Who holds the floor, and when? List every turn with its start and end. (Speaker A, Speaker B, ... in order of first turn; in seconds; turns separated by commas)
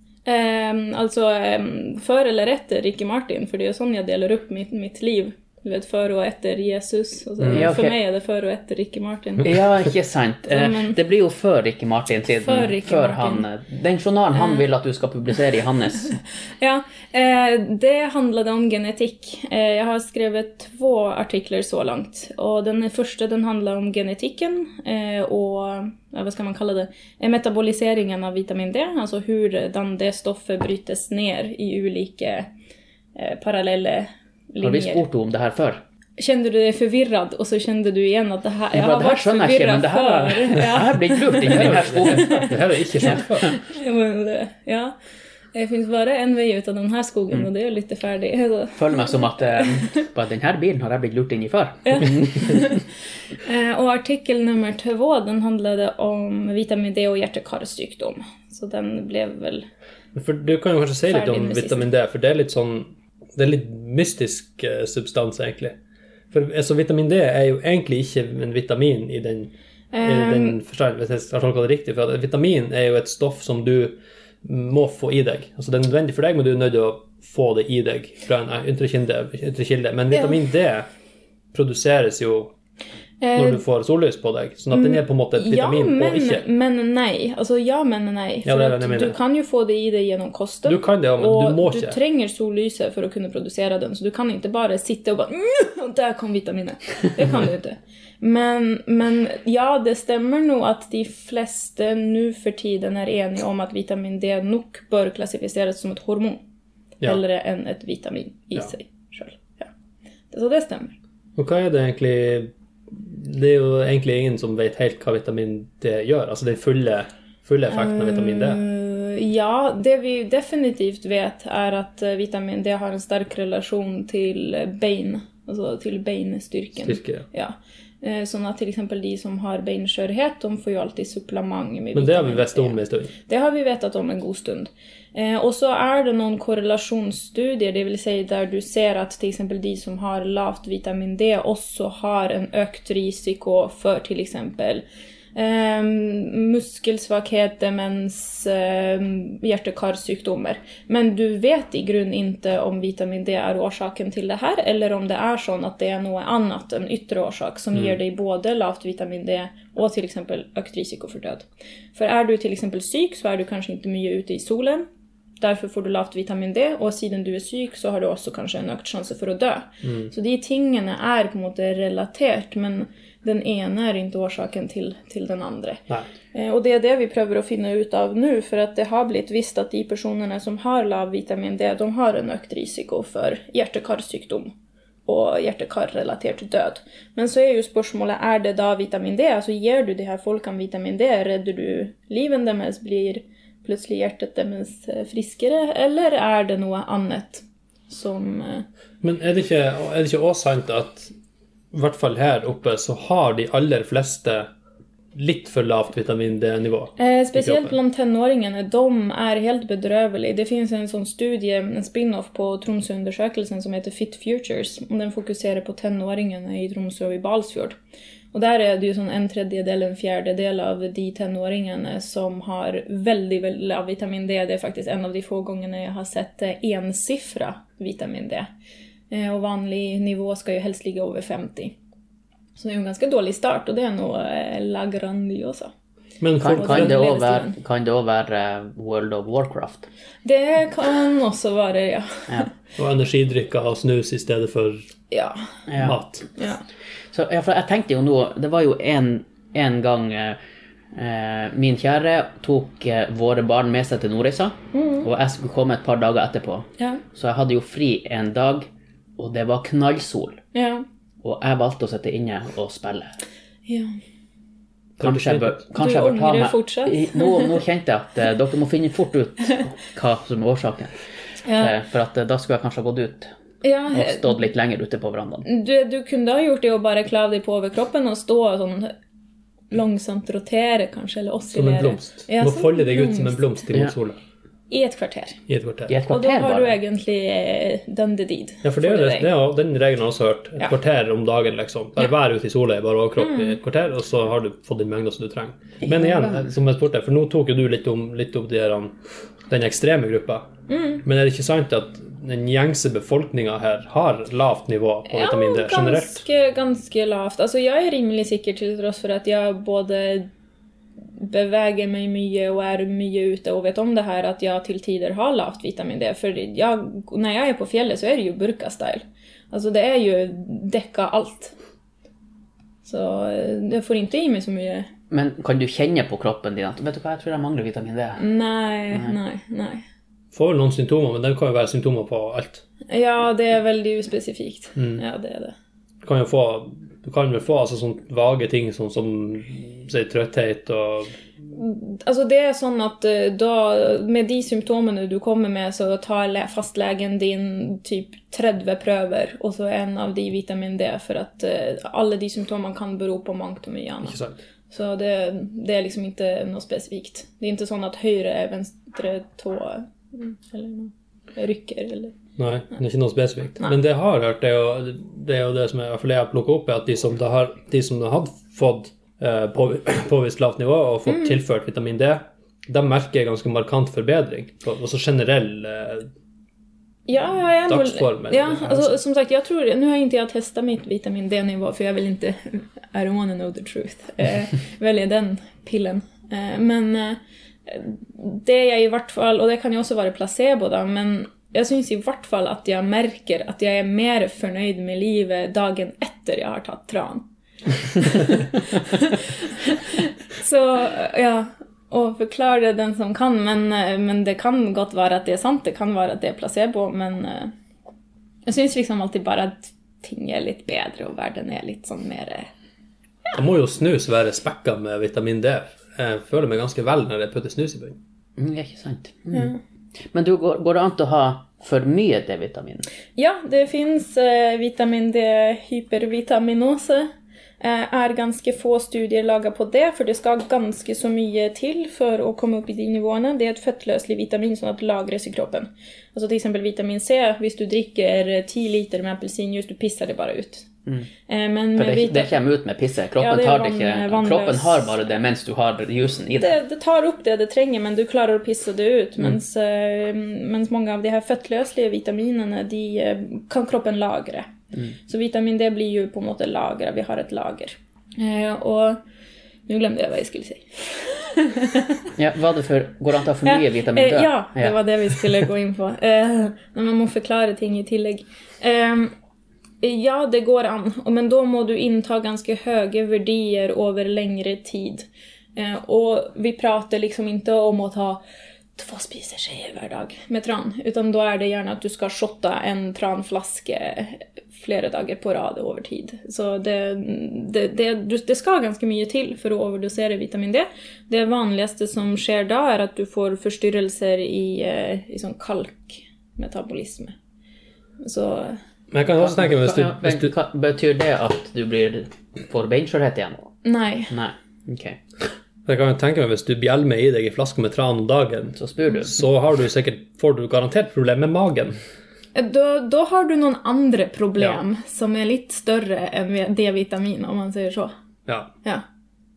Speaker A: 0.3-9.6, Speaker B: 7.4-7.7, Speaker C: 7.5-8.0, Speaker C: 9.4-16.2, Speaker A: 10.5-11.0, Speaker A: 12.4-13.5, Speaker A: 14.4-14.6, Speaker A: 16.6-32.5, Speaker A: 33.1-35.0, Speaker C: 34.6-35.8, Speaker A: 36.2-45.0, Speaker C: 38.7-42.5, Speaker B: 41.5-43.5, Speaker C: 43.0-43.5, Speaker A: 45.5-50.0, Speaker C: 48.8-52.8, Speaker A: 51.9-52.8, Speaker A: 53.4-59.7, Speaker B: 60.1-65.8, Speaker A: 61.1-61.9, Speaker B: 66.3-80.9, Speaker A: 69.9-70.6, Speaker B: 81.5-82.5, Speaker A: 83.2-83.6, Speaker B: 83.3-86.5, Speaker A: 84.7-106.4, Speaker B: 88.5-89.2, Speaker B: 90.7-92.0, Speaker A: 107.0-109.7, Speaker A: 110.3-111.0, Speaker B: 111.4-118.6, Speaker A: 117.7-144.8, Speaker B: 126.8-127.3, Speaker B: 131.9-133.1, Speaker A: 145.3-164.9, Speaker A: 165.4-175.8, Speaker B: 169.8-170.1, Speaker A: 176.3-184.5, Speaker A: 185.1-198.7, Speaker B: 199.0-201.1, Speaker B: 201.7-204.5, Speaker B: 205.2-207.8, Speaker A: 207.0-217.8, Speaker A: 218.3-228.5, Speaker A: 229.1-231.8, Speaker A: 232.6-235.7, Speaker B: 236.2-237.0, Speaker C: 236.4-239.9, Speaker A: 236.5-237.6, Speaker A: 240.2-242.5, Speaker B: 242.8-244.9, Speaker A: 245.1-245.5, Speaker C: 245.7-246.0, Speaker B: 245.8-246.3, Speaker A: 246.4-246.6, Speaker C: 247.1-250.4, Speaker C: 250.9-258.7, Speaker A: 254.7-255.1, Speaker C: 259.2-260.4, Speaker A: 260.5-260.9, Speaker C: 261.2-263.2, Speaker A: 263.7-263.9, Speaker C: 265.0-271.0, Speaker B: 265.0-265.6, Speaker A: 265.8-267.6, Speaker A: 271.4-271.7, Speaker C: 271.6-273.3, Speaker A: 273.6-274.4, Speaker C: 273.9-275.4, Speaker A: 275.4-278.9, Speaker A: 279.7-283.6, Speaker B: 281.5-284.2, Speaker A: 284.7-285.4, Speaker B: 285.5-285.9, Speaker C: 285.9-286.8, Speaker A: 286.1-289.3, Speaker B: 288.6-299.0, Speaker A: 293.2-293.6, Speaker C: 295.9-296.4, Speaker B: 299.5-300.5, Speaker A: 300.7-301.0, Speaker B: 301.0-306.2, Speaker A: 305.1-310.3, Speaker A: 311.2-321.6, Speaker A: 322.8-324.9, Speaker C: 325.1-328.2, Speaker A: 328.2-329.8, Speaker B: 330.3-332.6, Speaker A: 332.9-335.5, Speaker B: 336.0-341.1, Speaker A: 341.6-354.2, Speaker B: 354.1-354.4, Speaker A: 354.7-362.2, Speaker B: 362.4-376.1, Speaker A: 371.1-371.3, Speaker A: 377.1-397.2, Speaker B: 377.7-379.0, Speaker A: 397.8-407.5, Speaker A: 408.5-412.5, Speaker B: 413.3-418.0, Speaker C: 418.4-419.6, Speaker C: 420.1-422.9, Speaker A: 423.2-440.7, Speaker A: 441.3-442.4, Speaker C: 441.8-446.6, Speaker A: 443.2-445.0, Speaker A: 446.4-454.5, Speaker A: 455.1-459.0, Speaker A: 459.7-462.1, Speaker C: 462.2-464.8, Speaker A: 463.4-469.1, Speaker A: 469.8-478.2, Speaker A: 478.8-497.1, Speaker A: 498.0-498.6, Speaker B: 498.9-500.3, Speaker C: 499.2-503.5, Speaker A: 503.6-504.1, Speaker C: 504.1-505.0, Speaker B: 505.7-511.8, Speaker C: 508.6-509.2, Speaker A: 512.4-517.9, Speaker B: 518.3-518.5